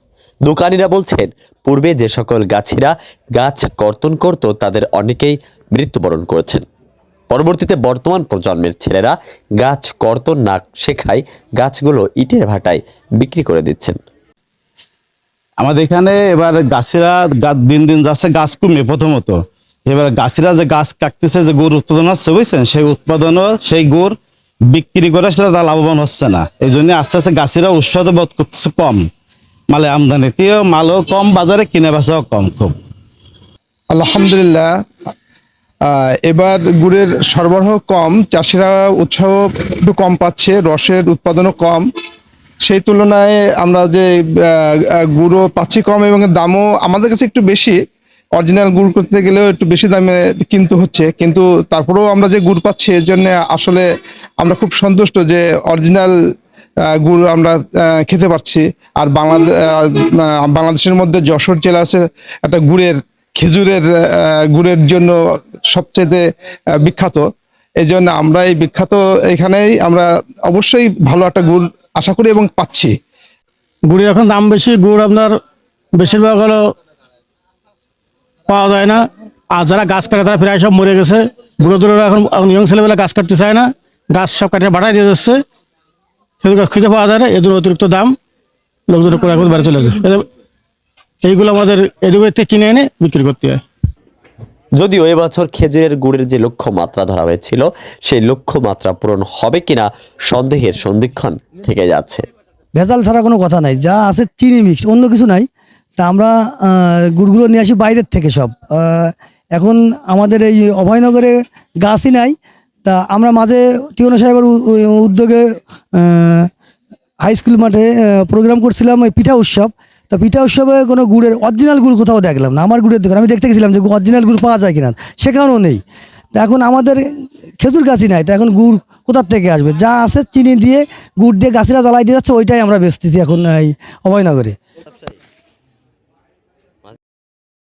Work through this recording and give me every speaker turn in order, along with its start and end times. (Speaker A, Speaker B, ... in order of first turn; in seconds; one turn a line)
Speaker A: 0.5-6.6
Speaker A: 7.3-14.0
Speaker B: 15.6-24.2
Speaker B: 24.7-29.1
Speaker B: 29.7-32.8
Speaker C: 33.9-34.7
Speaker C: 35.9-41.9
Speaker C: 42.6-47.8
Speaker C: 48.4-53.9
Speaker C: 54.4-56.1
Speaker C: 56.9-65.2
Speaker C: 65.7-67.2
Speaker C: 67.8-72.9
Speaker D: 73.9-75.4
Speaker D: 76.0-76.6
Speaker D: 78.5-79.0
Speaker D: 79.5-85.4
Speaker D: 86.4-88.1
Speaker D: 88.9-90.2
Speaker D: 91.2-93.6
Speaker A: 94.8-102.2
Speaker E: 102.8-105.5
Speaker E: 106.0-116.5
Speaker E: 117.2-125.8
Speaker E: 126.3-127.0
Speaker E: 127.6-134.6